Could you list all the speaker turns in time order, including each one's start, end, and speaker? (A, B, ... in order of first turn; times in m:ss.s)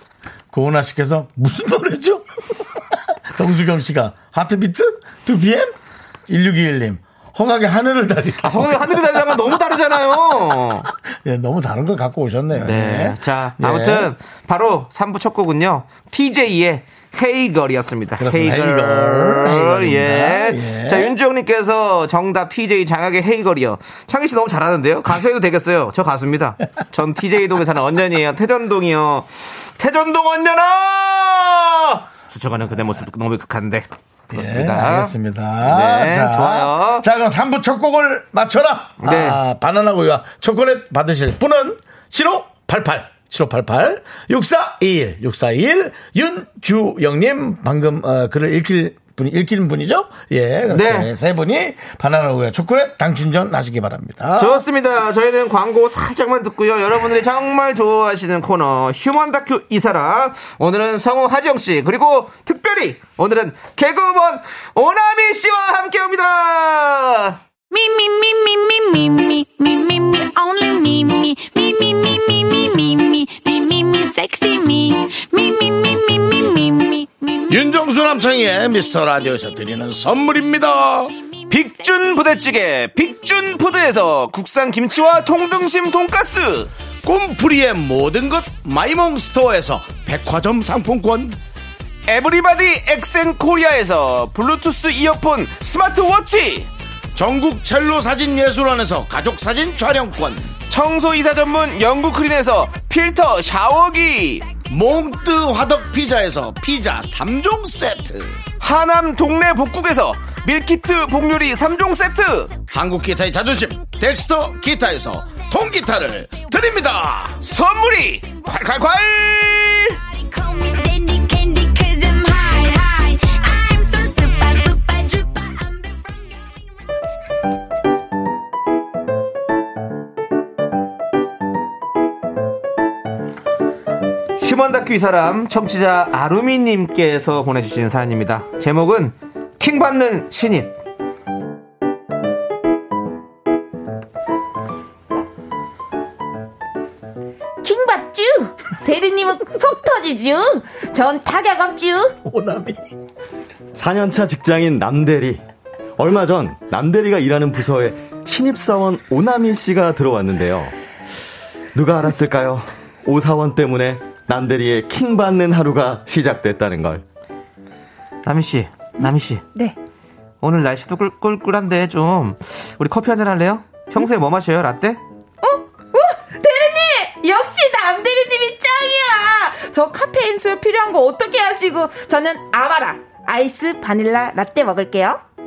0:00.5-0:02.2 A
0:02.9-0:05.7 A
0:06.3-0:09.3 A
0:08.4-0:10.9 B
0:11.1-0:14.1 A
0:12.6-0:37.1 B
0:18.2-0:21.1 A
0:34.3-0:54.6 A
0:39.0-0:39.4 B
0:50.7-0:51.1 B
0:54.4-1:07.4 B
1:07.7-1:17.6 C
1:17.5-1:21.1 A
1:21.5-1:26.7 B
1:27.0-1:31.4 A
1:32.1-1:36.7 B
1:37.2-1:40.5 A
1:40.7-1:44.5 B
1:44.7-1:48.4 A
1:48.6-1:52.6 B
1:52.7-1:57.4 A
1:57.4-2:00.0 B
2:00.1-2:06.5 C
2:14.4-2:20.7 B
2:27.6-2:32.2 D
2:32.2-2:32.9 A
2:33.8-2:35.4 E
2:36.0-2:40.7 E
2:41.8-2:47.0 E
2:48.2-2:49.4 B
2:50.4-2:55.0 B
2:55.4-3:05.2 D